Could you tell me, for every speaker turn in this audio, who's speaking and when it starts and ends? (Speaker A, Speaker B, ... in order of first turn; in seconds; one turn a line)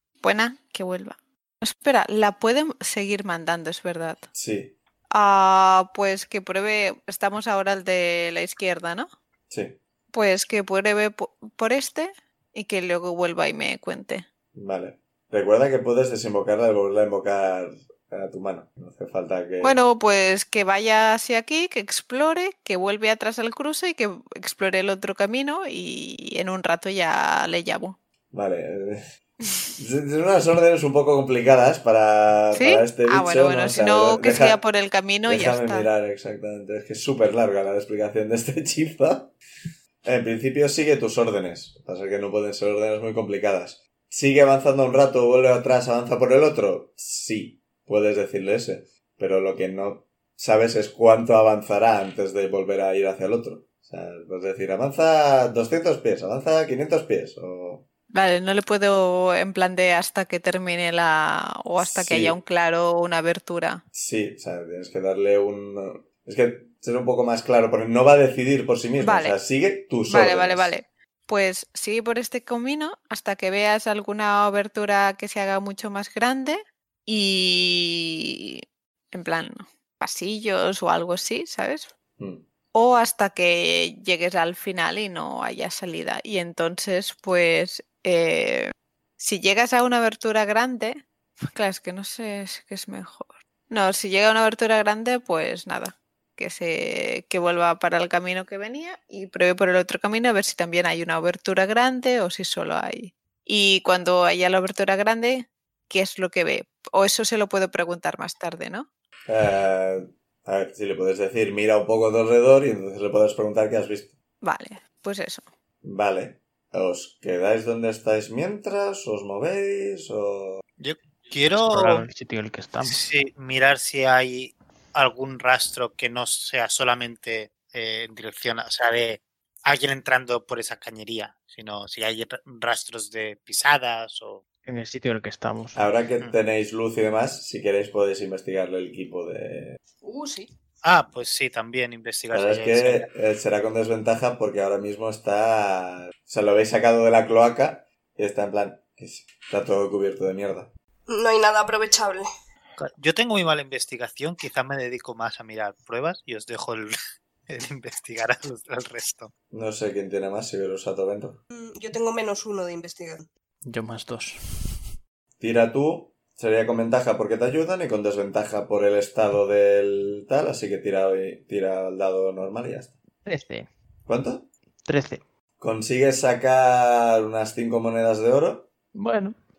Speaker A: 0.2-4.3
Speaker B: 4.3-4.8
Speaker A: 5.1-9.1
Speaker B: 9.5-9.8
Speaker A: 10.1-14.2
Speaker B: 14.5-19.8
Speaker A: 19.6-28.0
Speaker B: 28.3-29.0
Speaker B: 29.8-34.6
Speaker A: 32.5-35.9
Speaker B: 35.2-39.3
Speaker B: 40.0-57.8
Speaker A: 58.1-63.8
Speaker B: 61.8-62.4
Speaker B: 63.9-70.7
Speaker A: 69.0-69.4
Speaker A: 70.1-81.9
Speaker B: 82.2-82.4
Speaker A: 82.7-108.9
Speaker B: 109.3-114.2
Speaker A: 114.4-115.4
Speaker B: 115.8-120.6
Speaker C: 120.8-122.1
Speaker D: 121.6-123.0
Speaker C: 122.8-134.4
Speaker D: 134.7-135.8
Speaker B: 135.7-139.8
Speaker E: 140.0-140.5
Speaker C: 140.8-143.1
Speaker B: 142.3-150.7
Speaker E: 151.1-152.3
Speaker C: 152.8-156.9
Speaker C: 157.5-159.3
Speaker B: 159.5-161.4
Speaker E: 161.5-163.3
Speaker D: 163.6-164.8
Speaker B: 165.4-172.9
Speaker D: 173.2-173.7
Speaker B: 174.1-174.5
Speaker D: 174.8-175.2
Speaker B: 175.6-178.7
Speaker D: 178.9-179.4